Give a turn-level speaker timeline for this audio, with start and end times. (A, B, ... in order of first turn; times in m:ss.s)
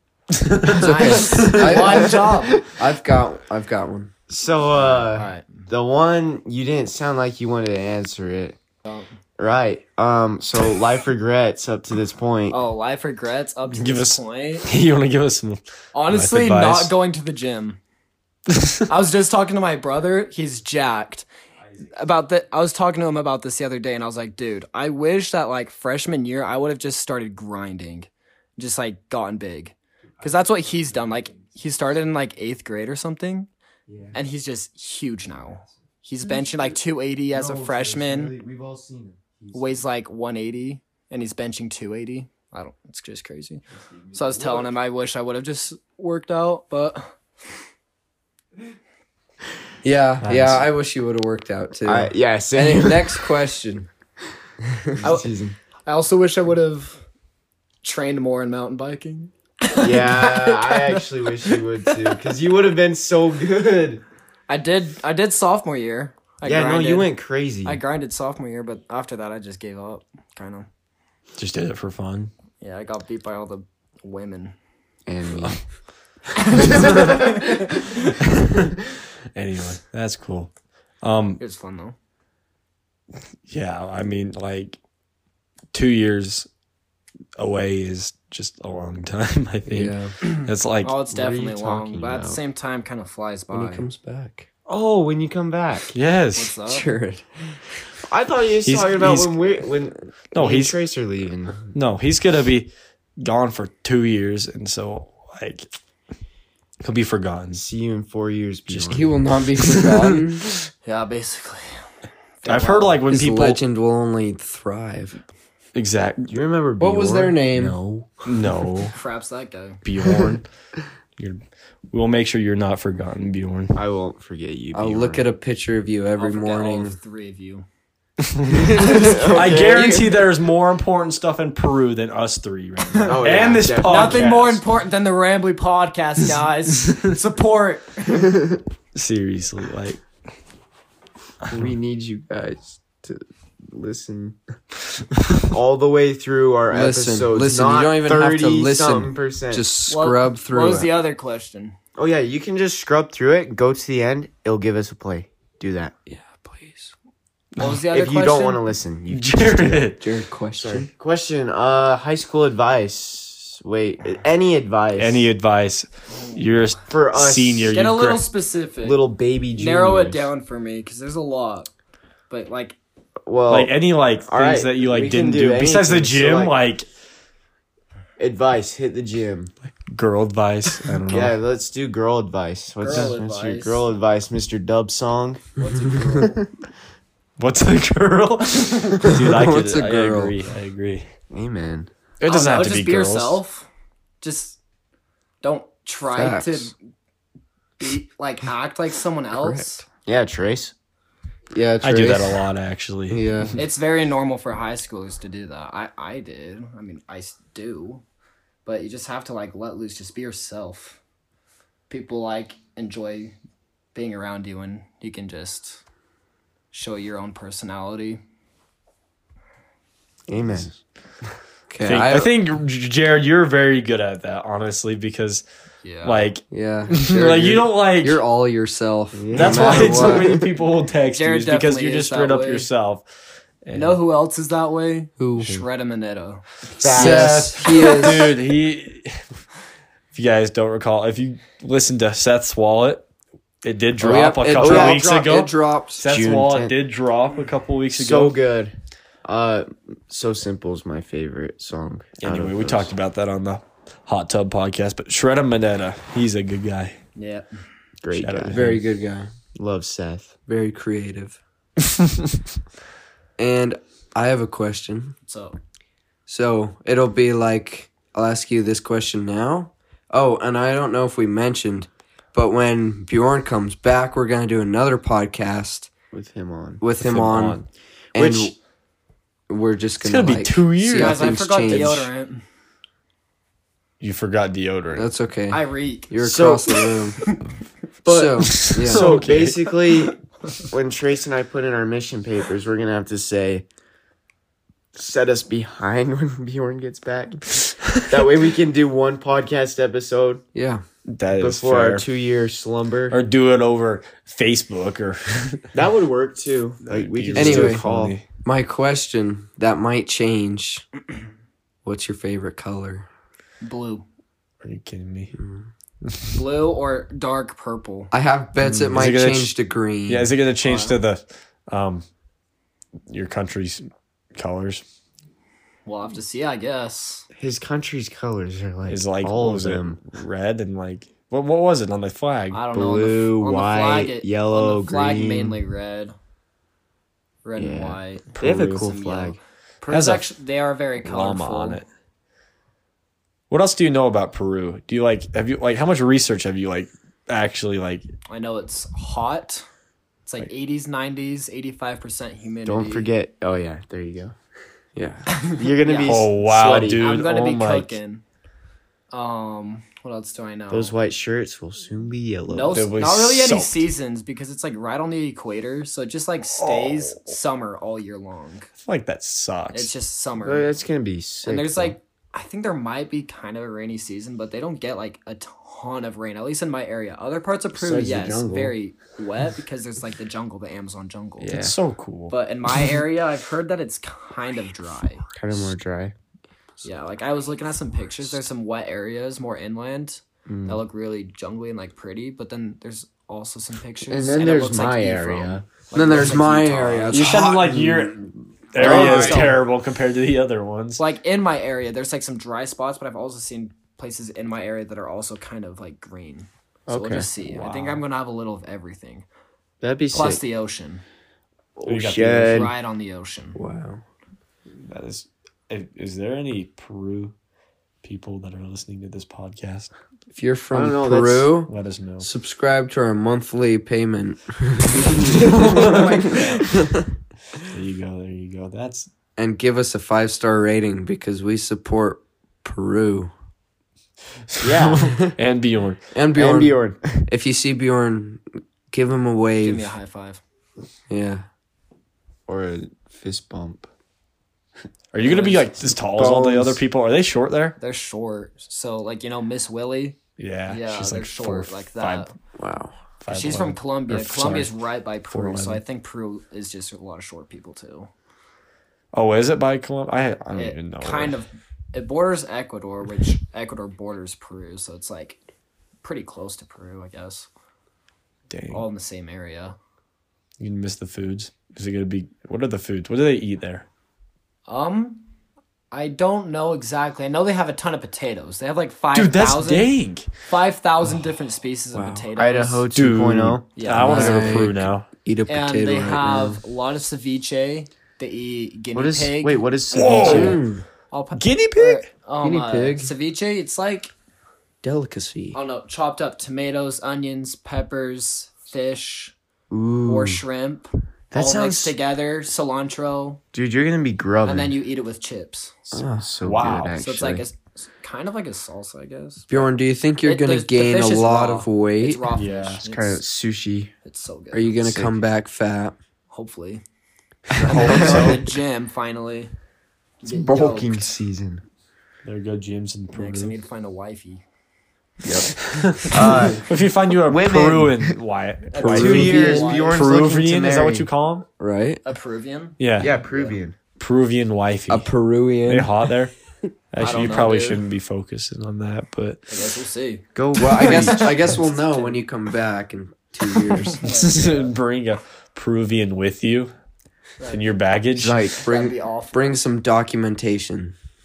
0:00.4-0:01.9 A
0:00.7-0:02.6 B
0:00.7-0:04.1 C
0:01.6-0:02.7 D
0:04.3-0:08.6 D
0:04.7-0:05.7 B
0:09.4-0:12.6 D
0:12.5-0:14.7 B
0:13.7-0:17.0 A
0:15.9-0:17.8 B
0:18.5-0:18.8 A
0:18.9-0:21.3 B
0:21.9-0:33.5 B
0:30.4-0:31.1 A
0:33.9-0:34.2 D
0:34.1-0:38.4 B
0:37.3-0:39.8 D
0:39.5-0:47.1 B
0:43.9-0:44.7 D
0:49.8-0:53.9 C
0:50.2-0:50.6 A
0:51.9-0:53.3 D
0:54.9-0:55.6 D
0:55.0-0:55.3 B
0:55.9-0:57.0 B
0:57.8-1:02.1 B
0:59.8-1:04.0 D
1:04.5-1:07.1 B
1:06.4-1:07.8 D
1:07.6-1:10.7 B
1:11.4-1:12.3 A
1:12.6-1:14.6 B
1:15.1-1:15.6 D
1:16.5-1:21.4 A
1:16.6-1:17.4 D
1:21.4-1:22.0 B
1:23.5-1:24.8 A
1:25.7-1:26.5 A
1:27.4-1:31.0 A
1:29.7-1:30.1 C
1:30.2-1:33.8 B
1:31.1-1:32.4 D
1:33.5-1:34.5 C
1:34.7-1:35.9 D
1:35.9-1:36.6 A
1:36.4-1:36.9 B
1:36.7-1:37.6 C
1:38.1-1:41.7 D
1:38.6-1:39.5 A
1:40.3-1:40.8 A
1:41.7-1:45.7 A
1:46.8-1:47.6 A
1:47.5-1:49.2 D
1:48.7-1:49.0 A
1:48.8-1:50.6 C
1:49.5-1:50.4 A
1:50.8-1:51.9 B
1:52.4-1:53.0 B
1:52.4-1:53.6 A
1:53.1-1:55.2 C
1:55.8-1:56.4 A
1:56.3-1:57.5 D
1:56.8-1:57.8 C
1:57.6-1:59.0 A
1:58.9-1:59.8 B
1:59.8-2:00.5 A
2:01.9-2:03.8 A
2:03.8-2:05.3 D
2:04.7-2:07.0 C
2:06.2-2:07.7 B
2:08.2-2:14.6 A
2:08.5-2:10.2 D
2:08.8-2:10.0 C
2:13.0-2:14.3 D
2:13.8-2:18.2 B
2:18.1-2:18.6 D
2:19.0-2:20.0 A
2:21.5-2:24.4 D
2:25.4-2:29.7 D
2:26.7-2:30.9 C
2:29.9-2:31.8 B
2:32.0-2:36.0 D
2:36.1-2:36.9 C
2:37.6-2:38.6 B
2:37.7-2:39.9 D
2:39.1-2:40.0 A
2:40.0-2:40.9 C
2:40.6-2:45.3 D
2:45.0-2:48.2 A
2:46.9-2:47.8 D
2:47.7-2:49.0 B
2:48.8-2:50.3 D
2:49.6-2:51.7 B
2:52.3-2:52.8 B
2:53.3-2:53.7 D
2:53.5-2:56.9 A
2:54.3-2:56.6 D
2:58.2-2:59.5 D
2:59.8-3:01.4 A
3:01.1-3:06.5 D
3:02.8-3:03.8 B
3:05.6-3:06.4 B
3:07.4-3:11.1 A
3:09.1-3:10.3 C
3:11.3-3:11.9 D
3:12.2-3:13.4 A
3:12.2-3:13.7 B
3:14.2-3:14.6 B
3:15.4-3:16.7 B
3:16.1-3:16.7 C
3:17.8-3:19.9 B
3:19.4-3:19.6 C
3:20.0-3:20.7 D
3:21.5-3:22.4 C
3:21.8-3:23.5 A
3:23.1-3:23.6 C
3:23.6-3:28.0 B
3:28.6-3:31.0 B
3:31.9-3:33.4 B
3:33.9-3:35.8 B
3:36.7-3:38.2 B
3:40.3-3:40.7 D
3:41.7-3:42.3 C
3:41.8-3:45.4 A
3:45.8-3:46.2 B
3:46.0-3:48.2 A
3:46.5-3:50.4 C
3:49.2-3:50.5 D
3:49.3-3:53.1 A
3:51.1-3:52.7 B
3:53.6-3:54.0 A
3:53.7-3:56.4 B
3:55.2-3:55.6 C
3:56.7-3:58.1 D
3:56.9-3:59.3 A
3:56.9-3:58.3 C
4:00.1-4:03.1 A
4:03.6-4:08.4 A
4:04.0-4:06.0 C
4:04.5-4:05.3 D
4:06.1-4:06.8 D
4:07.9-4:12.9 D
4:12.2-4:17.0 A
4:17.2-4:17.4 B
4:18.0-4:18.7 D
4:18.1-4:18.8 A
4:18.5-4:19.3 C
4:19.6-4:20.3 D
4:20.5-4:21.4 C
4:23.4-4:25.2 C
4:25.3-4:25.6 B
4:26.3-4:35.9 C
4:36.1-4:36.8 D
4:36.8-4:37.6 C
4:37.0-4:37.6 A
4:38.2-4:38.5 C
4:38.2-4:38.5 D
4:39.5-4:42.1 C
4:40.0-4:42.1 A
4:40.9-4:42.4 B
4:44.0-4:45.1 A
4:45.0-4:47.2 C
4:45.5-4:46.2 B
4:46.2-4:47.0 D
4:48.0-4:53.7 D
4:48.1-4:49.2 C
4:48.4-4:49.8 A
4:54.9-5:00.4 D
5:00.6-5:00.8 C
5:01.1-5:02.1 A
5:01.4-5:03.2 D
5:03.1-5:05.6 A
5:05.7-5:08.2 D
5:06.8-5:08.2 A
5:07.4-5:07.8 C
5:08.4-5:10.9 C
5:11.8-5:13.1 C
5:13.6-5:14.0 B
5:14.6-5:15.3 A
5:15.4-5:15.7 C
5:16.0-5:16.3 A
5:16.3-5:18.1 B
5:18.1-5:20.3 C
5:18.7-5:19.6 A
5:20.1-5:22.0 A
5:20.6-5:21.0 B
5:23.1-5:24.8 A
5:25.9-5:27.3 B
5:27.4-5:30.0 D
5:28.9-5:32.6 A
5:32.5-5:36.2 B
5:32.7-5:35.6 D
5:37.4-5:41.8 B
5:37.6-5:39.4 D
5:38.4-5:38.9 A
5:39.9-5:40.3 A
5:41.0-5:41.9 A
5:43.5-5:48.1 A
5:48.3-5:49.7 B
5:50.2-5:53.1 B
5:52.6-5:54.3 D
5:54.9-5:55.3 C
5:55.4-5:56.2 B
5:55.6-5:57.1 D
5:56.0-5:58.0 A
5:56.9-5:58.2 B
5:59.1-6:00.9 B
6:00.7-6:02.9 D
6:02.5-6:08.7 B
6:02.7-6:03.9 A
6:06.6-6:07.3 A
6:08.8-6:09.9 A
6:09.7-6:10.7 B
6:10.4-6:11.9 D
6:11.4-6:21.6 B
6:17.7-6:18.8 D
6:21.4-6:22.3 A
6:21.4-6:21.8 D
6:22.3-6:25.3 B
6:25.3-6:26.1 D
6:26.8-6:37.2 B
6:30.5-6:30.8 D
6:34.1-6:36.3 D
6:35.9-6:38.2 C
6:37.1-6:41.0 A
6:38.8-6:39.6 D
6:38.8-6:39.6 B
6:41.0-6:49.3 B
6:46.9-6:47.3 D
6:47.5-6:48.0 A
6:49.8-6:50.4 D
6:50.1-6:51.0 B
6:51.8-6:52.7 D
6:51.8-6:52.7 A
6:52.4-6:53.6 B
6:53.6-6:54.0 C
6:54.8-6:57.3 A
6:58.0-6:59.9 A
7:00.3-7:07.0 C
7:00.7-7:01.5 D
7:01.7-7:02.3 A
7:05.3-7:06.6 D
7:05.6-7:06.4 A
7:05.7-7:06.6 B
7:07.6-7:09.1 A
7:09.4-7:13.3 C
7:14.5-7:16.0 A
7:14.6-7:15.3 D
7:16.1-7:19.9 C
7:16.3-7:17.2 D
7:19.6-7:20.4 B
7:21.1-7:21.4 C
7:22.5-7:23.9 D
7:25.1-7:27.8 A
7:25.2-7:25.7 B
7:26.1-7:26.8 C
7:27.8-7:32.3 B
7:30.4-7:32.3 A
7:32.6-7:32.9 C
7:33.2-7:34.8 A
7:33.3-7:38.1 B
7:35.3-7:35.8 A
7:39.1-7:41.4 A
7:40.5-7:45.4 B
7:46.0-7:47.5 B
7:48.5-7:48.8 A
7:48.7-7:49.8 B
7:50.6-7:53.9 A
7:54.7-7:55.2 B
7:55.9-7:59.9 B
7:59.1-8:00.3 A
8:00.4-8:02.9 B
8:01.9-8:02.2 C
8:02.4-8:04.5 D
8:02.9-8:05.1 A
8:03.8-8:04.4 B
8:04.0-8:06.6 C
8:05.5-8:10.6 B
8:08.9-8:10.6 D
8:09.9-8:10.6 A
8:10.2-8:10.8 C
8:11.1-8:14.1 B
8:11.4-8:12.1 A
8:12.4-8:13.1 C
8:14.8-8:15.6 C
8:15.5-8:19.3 B
8:19.7-8:20.4 D
8:20.1-8:23.4 B
8:21.3-8:21.9 D
8:23.5-8:24.8 D
8:24.4-8:25.9 B
8:25.9-8:27.4 D
8:25.9-8:26.2 C
8:26.4-8:27.0 A
8:27.0-8:29.7 B
8:29.5-8:32.2 C
8:30.2-8:33.2 B
8:32.3-8:32.8 A
8:32.8-8:33.9 D
8:34.0-8:34.8 B
8:34.5-8:36.0 C
8:34.8-8:35.2 D
8:36.3-8:36.8 B
8:37.5-8:38.3 C
8:37.6-8:38.5 A
8:37.6-8:38.4 D
8:37.7-8:39.5 B
8:40.2-8:41.0 B
8:40.3-8:41.6 D
8:42.2-8:43.6 A
8:43.1-8:44.4 B
8:45.2-8:45.5 C
8:45.6-8:51.4 A
8:46.1-8:46.7 D
8:47.3-8:48.2 D
8:48.7-8:50.0 B
8:48.8-8:49.7 C
8:48.8-8:51.1 D
8:51.6-8:52.0 C
8:52.0-8:53.6 B
8:52.8-8:53.1 A
8:53.0-8:53.8 D
8:54.0-8:55.1 A
8:54.9-8:55.9 C
8:55.6-8:56.3 A
8:56.9-8:59.5 A
8:57.0-8:57.8 B
8:59.5-9:00.2 B
9:00.4-9:01.6 D
9:00.6-9:04.1 C
9:01.2-9:02.1 B
9:03.9-9:06.7 A
9:04.0-9:04.7 B
9:07.4-9:07.7 B
9:07.5-9:08.4 A
9:08.2-9:08.6 D
9:08.5-9:10.9 C
9:08.6-9:09.6 B